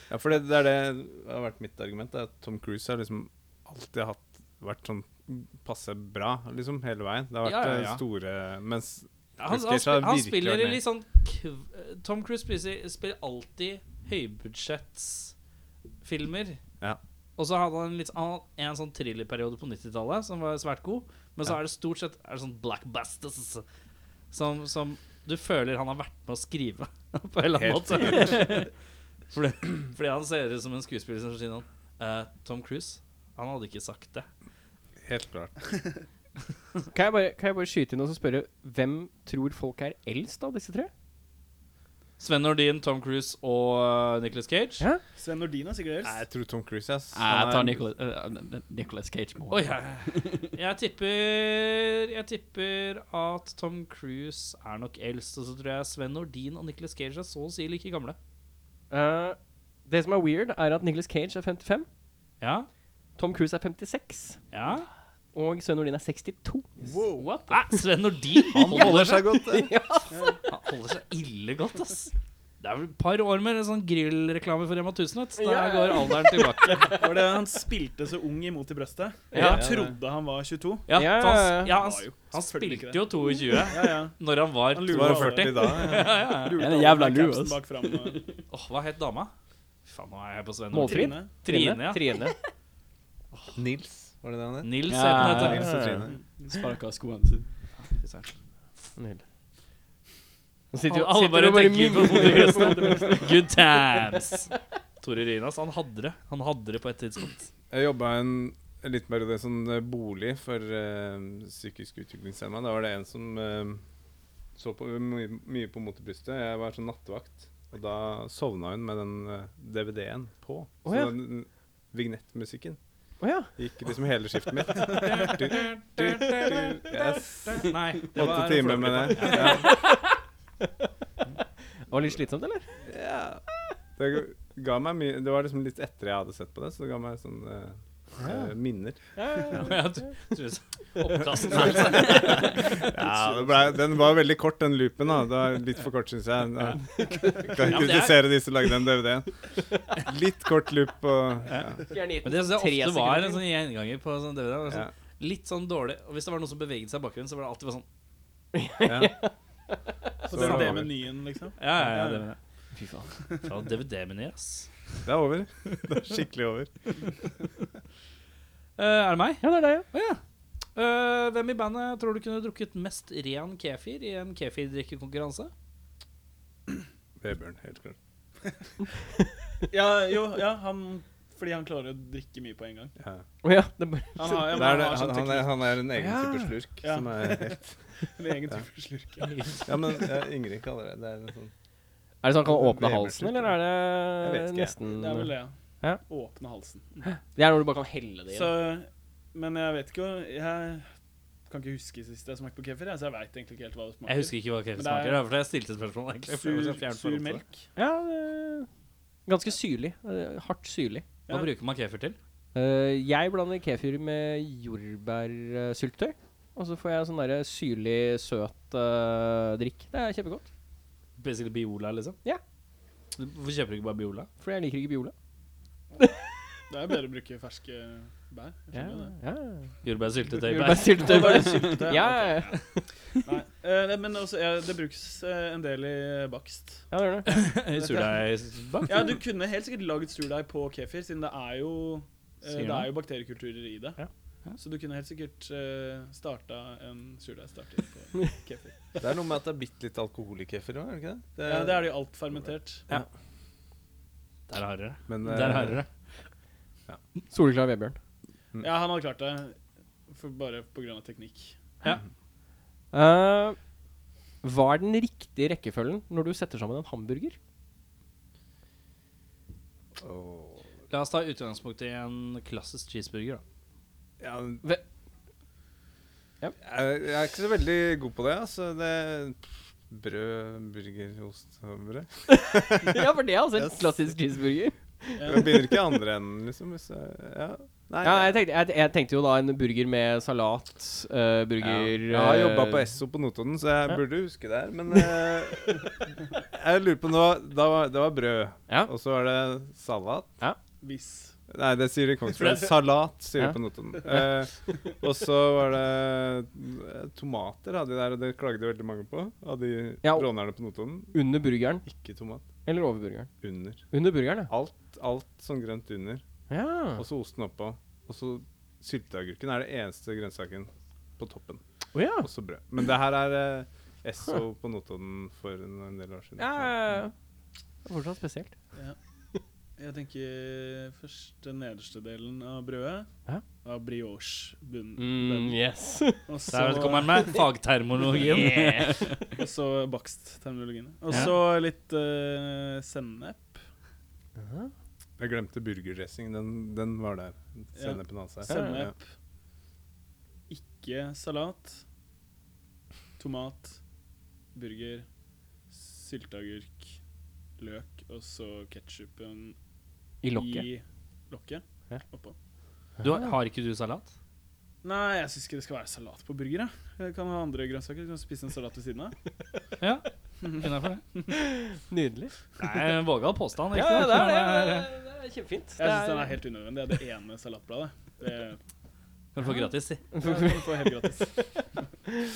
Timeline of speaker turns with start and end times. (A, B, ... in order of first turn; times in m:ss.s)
0:00.1-0:10.8 A
0:07.4-0:08.0 B
0:09.4-0:15.3 B
0:16.0-0:16.6 B
0:17.4-0:23.6 B
0:24.3-0:28.7 B
0:27.5-0:28.5 A
0:29.3-0:34.3 B
0:35.1-0:35.5 A
0:36.9-0:40.9 C
0:42.2-0:44.8 B
0:45.2-0:46.2 D
0:46.0-0:47.8 A
0:47.1-0:50.4 E
0:49.5-0:58.2 B
0:58.9-1:01.9 C
1:02.4-1:02.7 B
1:03.2-1:04.4 C
1:04.5-1:04.9 B
1:05.3-1:07.0 C
1:06.8-1:07.5 A
1:07.4-1:09.3 B
1:08.4-1:09.8 A
1:08.7-1:10.2 C
1:10.1-1:10.4 D
1:10.5-1:17.0 B
1:15.4-1:17.0 C
1:16.9-1:20.8 D
1:19.3-1:19.6 C
1:19.3-1:19.6 B
1:19.4-1:19.9 A
1:20.9-1:26.6 B
1:20.9-1:21.8 C
1:21.7-1:23.1 D
1:23.6-1:24.1 D
1:24.7-1:28.2 D
1:24.9-1:26.2 A
1:26.5-1:28.3 E
1:28.5-1:29.3 B
1:29.8-1:32.2 B
1:30.7-1:32.4 C
1:30.8-1:31.3 D
1:33.5-1:36.2 A
1:34.6-1:35.7 B
1:34.9-1:35.7 E
1:35.5-1:35.9 C
1:36.5-1:37.4 E
1:37.8-1:38.3 B
1:39.0-1:39.2 C
1:40.7-1:43.3 C
1:40.9-1:44.5 B
1:45.0-1:47.5 B
1:47.7-1:53.8 A
1:54.6-2:02.8 A
2:00.8-2:01.1 C
2:03.2-2:03.5 C
2:03.6-2:09.7 A
2:04.8-2:09.8 B
2:09.3-2:10.0 C
2:11.9-2:12.8 C
2:12.8-2:13.4 A
2:14.0-2:19.0 A
2:19.2-2:19.8 C
2:19.5-2:22.8 B
2:22.0-2:29.3 A
2:27.4-2:28.3 B
2:30.0-2:31.8 A
2:31.9-2:33.4 C
2:32.2-2:37.8 B
2:34.6-2:34.9 A
2:38.5-2:39.3 C
2:38.8-2:39.2 A
2:40.3-2:42.2 D
2:40.3-2:41.0 A
2:40.4-2:40.8 B
2:41.6-2:42.4 B
2:42.7-2:43.1 C
2:43.4-2:44.7 B
2:45.0-2:46.7 A
2:48.8-2:50.2 B
2:49.4-2:49.8 C
2:50.7-2:55.5 B
2:57.2-2:58.0 A
2:59.7-3:02.9 D
3:03.0-3:03.2 A
3:03.4-3:04.6 C
3:04.2-3:05.5 D
3:04.4-3:07.8 A
3:06.0-3:06.5 C
3:06.8-3:07.4 D
3:08.1-3:09.6 D
3:09.2-3:09.6 B
3:09.6-3:11.5 A
3:12.2-3:16.0 C
3:12.4-3:14.8 A
3:14.9-3:17.0 D
3:17.0-3:18.6 C
3:18.3-3:20.9 D
3:21.5-3:25.2 D
3:24.1-3:27.4 B
3:26.3-3:27.6 D
3:27.8-3:28.7 C
3:29.2-3:31.0 C
3:31.3-3:32.2 B
3:32.5-3:40.4 C
3:41.2-3:42.2 B
3:43.2-3:44.3 B
3:44.4-3:45.1 C
3:46.7-3:49.1 D
3:48.7-3:49.7 C
3:49.8-3:51.4 B
3:50.4-3:52.9 C
3:50.9-3:52.6 D
3:53.2-3:56.8 D
3:56.9-3:57.3 C
3:57.2-3:59.2 B
3:57.7-3:58.2 D
3:58.8-4:04.0 D
4:02.5-4:02.9 B
4:04.6-4:08.9 D
4:09.0-4:13.0 A
4:11.4-4:12.9 D
4:14.5-4:15.9 B
4:15.1-4:15.8 A
4:17.3-4:18.0 C
4:18.6-4:19.6 D
4:20.1-4:21.6 D
4:22.9-4:23.6 C
4:24.4-4:27.4 C
4:30.0-4:30.6 A
4:30.9-4:33.4 B
4:34.2-4:34.6 A
4:36.6-4:43.8 A
4:42.3-4:45.7 C
4:45.2-4:45.4 D
4:45.2-4:48.4 A
4:48.0-4:52.9 C
4:51.6-4:56.0 A
4:56.5-5:00.3 A
5:00.8-5:01.3 D
5:01.5-5:11.2 A
5:02.3-5:02.7 B
5:10.0-5:10.3 C
5:11.1-5:11.9 C
5:11.8-5:12.4 A
5:12.6-5:13.3 C
5:13.4-5:13.9 A
5:13.9-5:14.5 C
5:14.5-5:16.2 A
5:16.5-5:17.0 C
5:16.9-5:21.6 A
5:21.9-5:22.3 C
5:22.2-5:27.0 A
5:26.4-5:27.1 C
5:27.8-5:28.5 C
5:29.8-5:33.1 D
5:33.6-5:35.6 D
5:35.0-5:36.3 C
5:36.2-5:37.5 D
5:36.5-5:39.2 B
5:38.1-5:39.1 C
5:39.3-5:43.6 D
5:41.1-5:41.4 B
5:44.4-5:44.7 C
5:45.2-5:48.9 A
5:47.8-5:49.0 D
5:48.5-5:48.8 C
5:50.5-5:51.8 D
5:53.2-5:53.8 D
5:54.5-5:55.0 D
5:55.7-5:57.0 D
5:57.6-5:59.6 D
6:00.2-6:00.6 C
6:00.3-6:02.3 D
6:03.0-6:04.1 B
6:03.0-6:03.3 C
6:04.8-6:09.1 D
6:09.8-6:11.0 B
6:11.3-6:12.3 C
6:12.6-6:14.9 B
6:13.7-6:16.3 C
6:15.8-6:18.6 D
6:19.3-6:20.0 B
6:20.1-6:22.2 C
6:20.2-6:21.3 D